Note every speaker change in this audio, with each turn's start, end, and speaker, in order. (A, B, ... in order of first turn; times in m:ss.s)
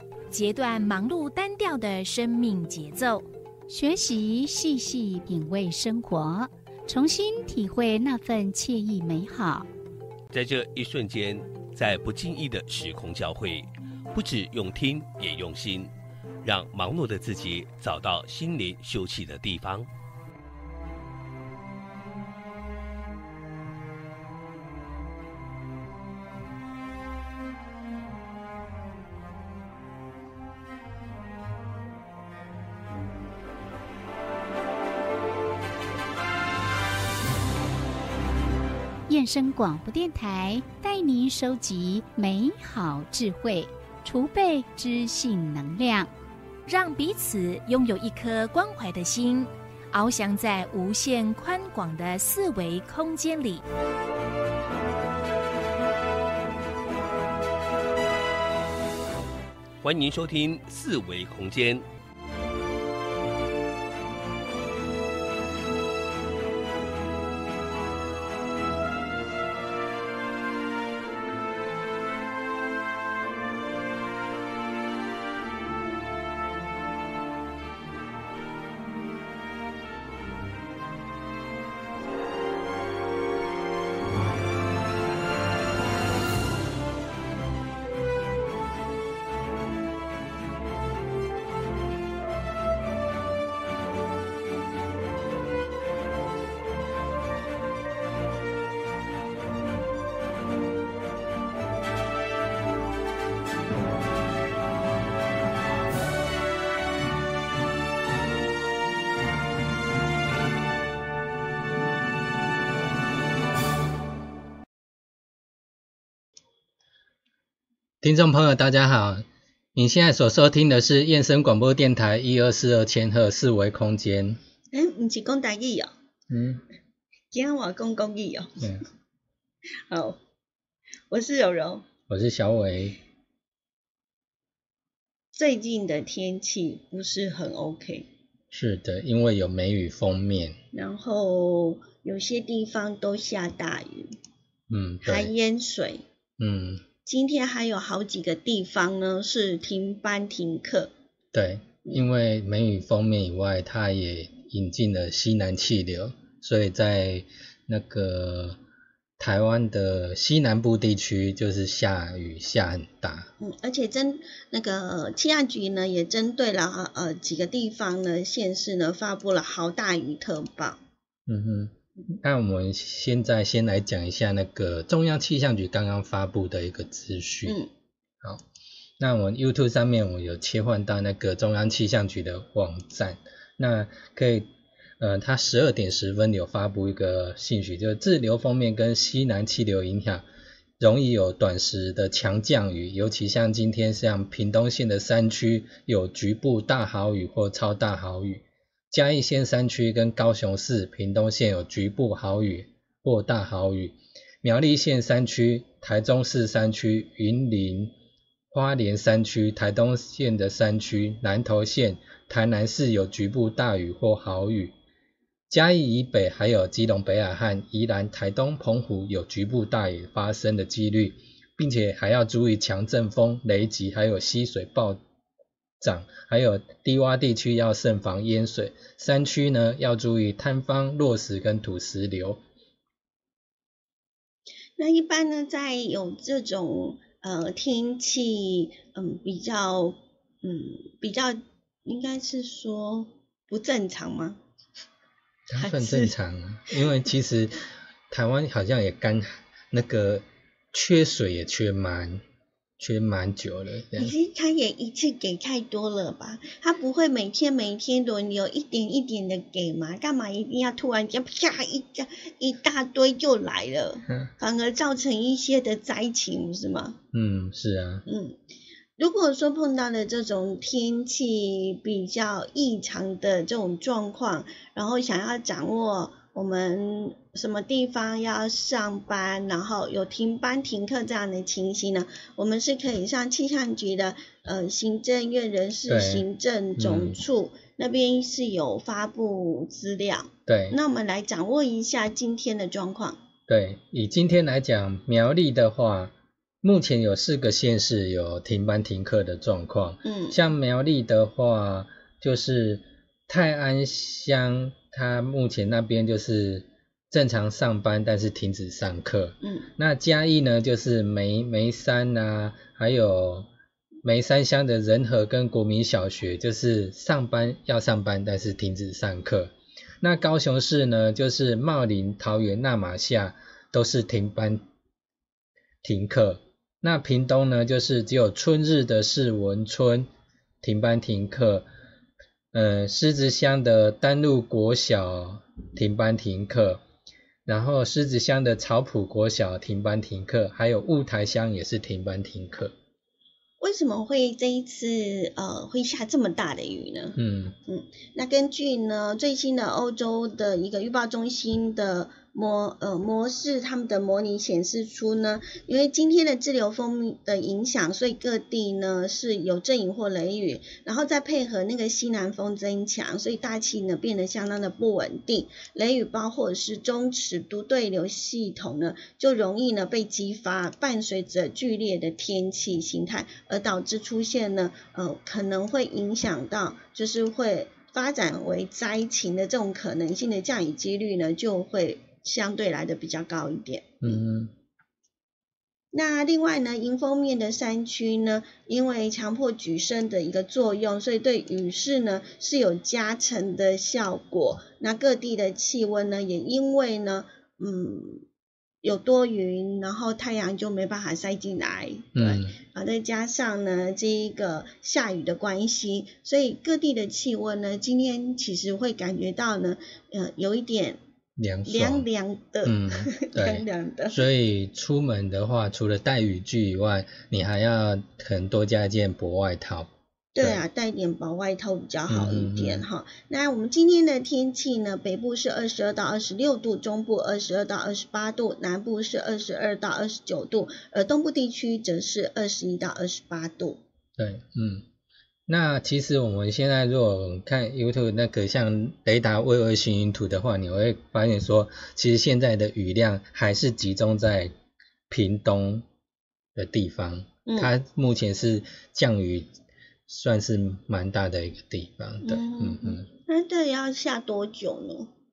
0:00.3-0:03.2 A
0:03.7-0:09.7 B
0:10.3-0:15.9 C
0:16.4-0:19.9 C
0:39.1-0:46.1 B
0:46.7-0:53.6 A
0:59.8-1:01.8 C
1:58.0-2:04.4 D
2:04.7-2:05.9 E
2:06.3-2:06.6 D
2:07.3-2:08.7 E
2:09.9-2:10.2 E
2:11.1-2:11.8 E
2:12.1-2:13.0 D
2:15.4-2:18.1 E
2:18.5-2:20.6 D
2:20.7-2:24.2 E
2:24.7-2:25.3 D
2:25.0-2:26.0 E
2:26.4-2:26.8 D
2:27.0-2:30.9 E
2:31.3-2:38.6 D
2:39.2-2:43.3 D
2:43.4-2:50.8 E
2:51.3-2:57.6 D
2:59.0-3:04.5 D
3:05.0-3:10.2 D
3:10.8-3:28.0 D
3:28.5-3:34.7 D
3:35.5-3:45.0 D
3:45.8-3:52.4 D
3:54.8-4:04.4 E
4:05.5-4:12.2 D
4:05.6-4:06.1 E
4:12.8-4:14.2 D
4:14.0-4:27.0 E
4:27.1-4:28.0 D
4:28.1-4:28.4 E
4:29.0-4:53.2 E
4:45.9-4:46.3 D
4:46.8-4:47.2 D
4:50.5-4:50.8 D
4:53.5-5:13.5 D
5:00.0-5:00.4 E
5:09.4-5:09.7 E
5:14.0-5:24.6 D
5:25.8-5:30.1 D
5:30.6-5:31.7 D
5:32.5-5:36.8 D
5:37.5-5:42.7 D
5:43.6-6:24.2 E
5:47.2-5:47.6 D
6:24.0-6:24.5 D
6:25.9-6:38.2 E
6:38.8-6:51.0 E
6:42.2-6:42.6 D
6:51.4-6:52.1 D
6:51.6-6:54.2 E
6:52.6-7:00.6 D
7:00.3-7:13.8 E
7:02.1-7:02.9 D
7:14.2-7:14.9 D
7:15.5-7:24.5 D
7:25.1-7:25.8 D
7:26.6-7:29.5 D
7:27.5-7:27.7 E
7:30.1-7:33.1 D
7:32.2-7:35.1 E